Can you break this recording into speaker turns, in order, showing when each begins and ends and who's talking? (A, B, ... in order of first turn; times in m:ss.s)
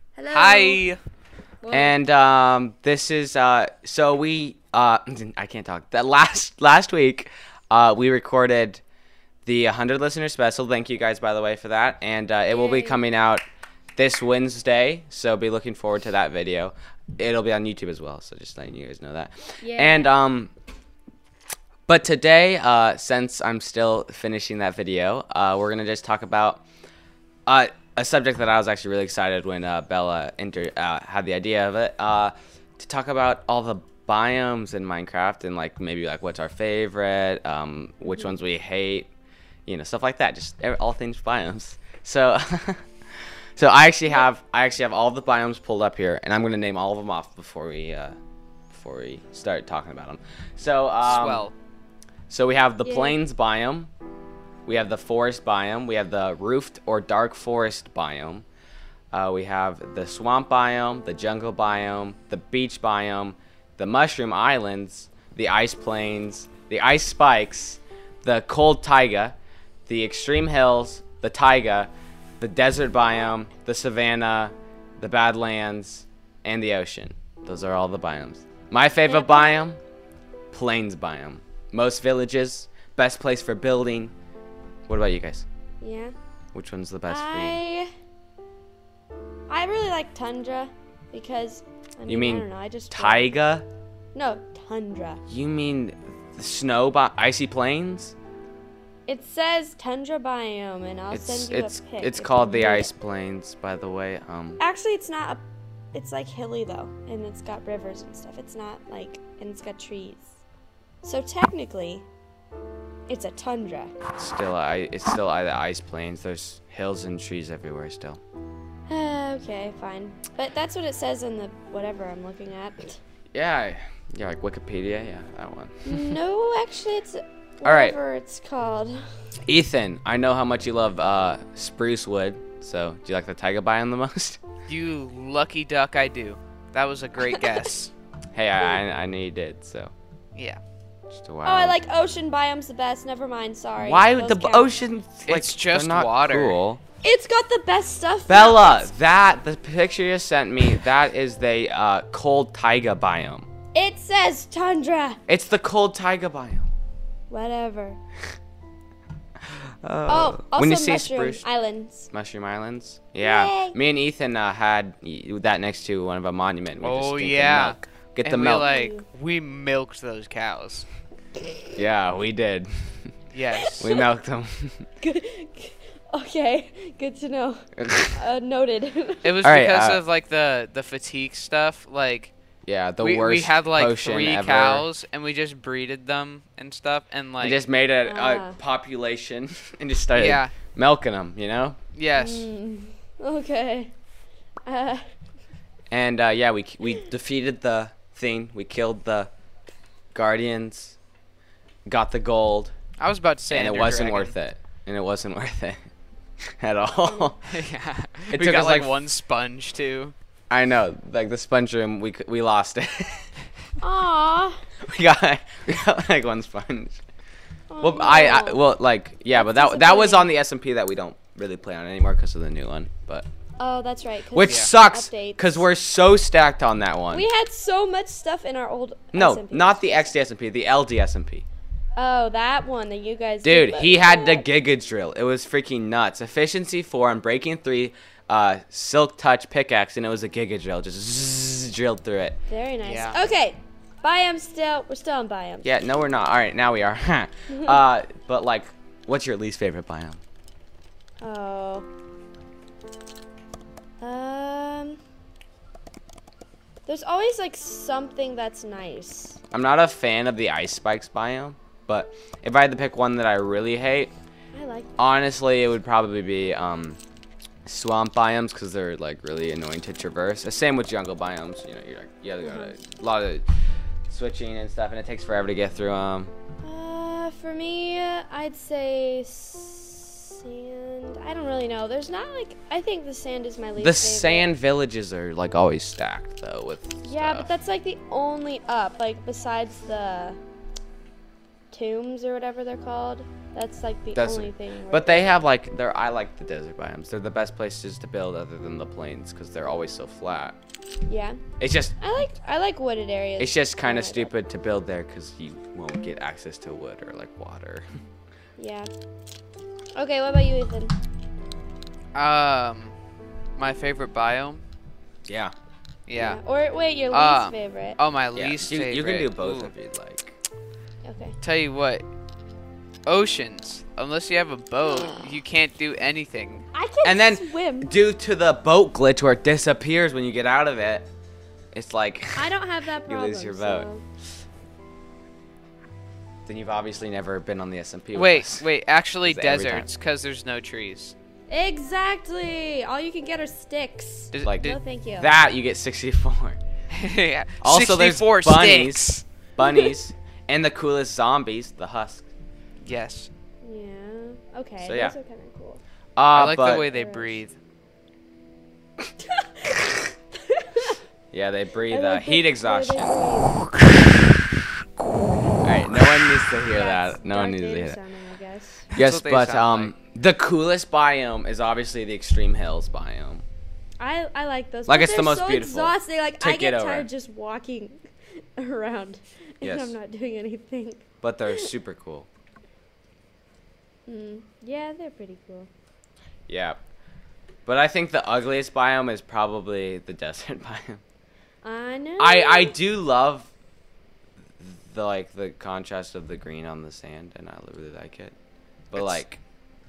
0:00.2-0:00.8 A
0:00.3-0:01.0 B
0:01.6-0:02.0 A
0:01.7-0:08.8 C
0:09.4-0:13.4 C
0:12.5-0:13.0 A
0:14.0-0:20.5 C
0:19.6-0:20.2 A
0:21.9-0:26.6 C
0:27.5-0:39.1 C
0:38.0-0:38.3 A
0:39.7-0:42.8 C
0:43.6-0:48.2 C
0:48.7-0:51.5 C
0:51.0-0:51.5 B
0:52.3-0:53.9 C
0:52.8-0:53.2 A
0:54.7-0:58.5 C
0:59.1-1:09.4 C
1:09.9-1:19.8 C
1:19.0-1:19.6 A
1:20.5-1:24.1 C
1:24.9-1:25.5 C
1:25.8-1:26.1 A
1:26.5-1:27.6 C
1:27.1-1:27.9 A
1:29.5-1:33.3 A
1:32.1-1:33.7 C
1:34.1-1:35.2 A
1:35.3-1:38.2 C
1:39.1-1:42.9 A
1:41.1-1:44.6 C
1:44.6-1:45.4 A
1:45.9-1:50.3 A
1:51.0-1:52.1 A
1:53.1-1:54.0 A
1:54.2-1:58.2 C
1:58.9-2:03.0 A
2:03.3-2:06.2 C
2:05.9-2:09.1 A
2:07.6-2:08.0 C
2:09.5-2:14.4 C
2:14.7-2:17.9 B
2:18.3-2:19.9 C
2:20.4-2:20.6 B
2:21.1-2:21.8 C
2:21.4-2:24.8 A
2:23.8-2:26.8 C
2:25.3-2:26.6 B
2:27.0-2:28.9 A
2:28.3-2:33.5 C
2:33.7-2:35.2 A
2:35.3-2:36.7 C
2:37.3-2:38.0 A
2:39.8-2:41.4 C
2:40.1-2:42.1 A
2:42.1-2:48.7 C
2:43.2-2:43.8 A
2:46.8-2:50.9 B
2:48.6-2:49.0 A
2:51.8-2:52.7 C
2:53.3-2:53.9 B
2:53.6-2:53.9 A
2:53.8-2:54.9 C
2:55.0-2:59.3 A
2:57.8-2:58.2 C
2:59.2-3:02.3 B
2:59.4-3:00.0 C
3:02.6-3:04.9 C
3:03.0-3:07.6 B
3:07.4-3:11.8 C
3:08.0-3:08.6 A
3:10.1-3:10.5 B
3:12.0-3:12.5 B
3:12.2-3:13.9 A
3:14.6-3:15.1 A
3:15.9-3:19.3 C
3:20.1-3:21.0 C
3:21.9-3:22.7 C
3:23.0-3:24.4 B
3:23.5-3:25.8 C
3:26.6-3:27.4 C
3:27.0-3:27.4 A
3:27.4-3:30.1 B
3:28.3-3:29.0 C
3:30.5-3:33.3 C
3:33.8-3:34.6 A
3:34.8-3:37.0 C
3:37.7-3:38.6 A
3:37.8-3:43.3 C
3:39.3-3:40.3 A
3:43.6-3:45.7 A
3:44.3-3:47.3 C
3:44.5-3:44.7 B
3:47.1-3:50.1 A
3:49.1-3:51.5 C
3:52.0-3:54.5 A
3:53.4-4:02.4 C
4:02.5-4:05.7 A
4:02.8-4:03.2 B
4:05.6-4:10.2 C
4:07.5-4:07.8 A
4:11.2-4:11.9 A
4:14.0-4:15.0 A
4:16.9-4:19.4 A
4:19.5-4:24.1 C
4:24.5-4:24.9 A
4:25.0-4:27.0 C
4:27.7-4:33.4 C
4:32.4-4:32.8 A
4:34.1-4:36.3 C
4:36.6-4:44.5 A
4:43.8-4:47.5 C
4:47.0-4:50.4 A
4:51.7-4:55.4 A
4:54.2-5:00.6 C
5:01.0-5:01.4 A
5:01.6-5:02.0 C
5:02.0-5:04.3 A
5:03.4-5:07.9 C
5:08.6-5:08.9 A
5:09.9-5:11.0 A
5:12.2-5:13.0 B
5:13.6-5:14.6 B
5:15.3-5:15.5 C
5:16.1-5:16.4 B
5:16.2-5:18.0 A
5:17.1-5:19.7 B
5:18.4-5:20.3 C
5:21.0-5:21.4 A
5:21.4-5:22.0 B
5:23.1-5:26.6 B
5:24.9-5:25.3 A
5:26.7-5:27.9 A
5:27.0-5:31.1 C
5:31.7-5:32.5 C
5:32.4-5:34.0 A
5:33.0-5:33.9 C
5:36.5-5:38.7 C
5:38.1-5:41.2 B
5:39.2-5:39.9 C
5:41.5-5:45.3 A
5:44.3-5:44.8 B
5:44.4-5:46.6 C
5:46.9-5:49.2 B
5:47.6-5:52.2 C
5:52.8-5:53.3 B
5:53.6-5:55.8 A
5:54.8-5:55.2 C
5:56.2-5:56.9 C
5:56.3-5:57.6 B
5:56.8-5:57.4 A
5:59.2-5:59.9 A
6:00.5-6:01.0 A
6:01.3-6:03.2 C
6:01.9-6:03.7 A
6:05.1-6:08.9 A
6:05.6-6:08.0 C
6:08.9-6:09.9 B
6:09.0-6:13.4 C
6:14.0-6:18.0 A
6:14.9-6:17.1 C
6:18.6-6:21.7 A
6:19.6-6:20.0 C
6:21.2-6:22.3 C
6:24.1-6:25.7 A
6:26.5-6:26.8 C
6:27.7-6:31.0 C
6:31.6-6:32.8 A
6:32.2-6:33.5 C
6:34.6-6:38.4 C
6:38.9-6:39.4 C
6:38.9-6:39.2 B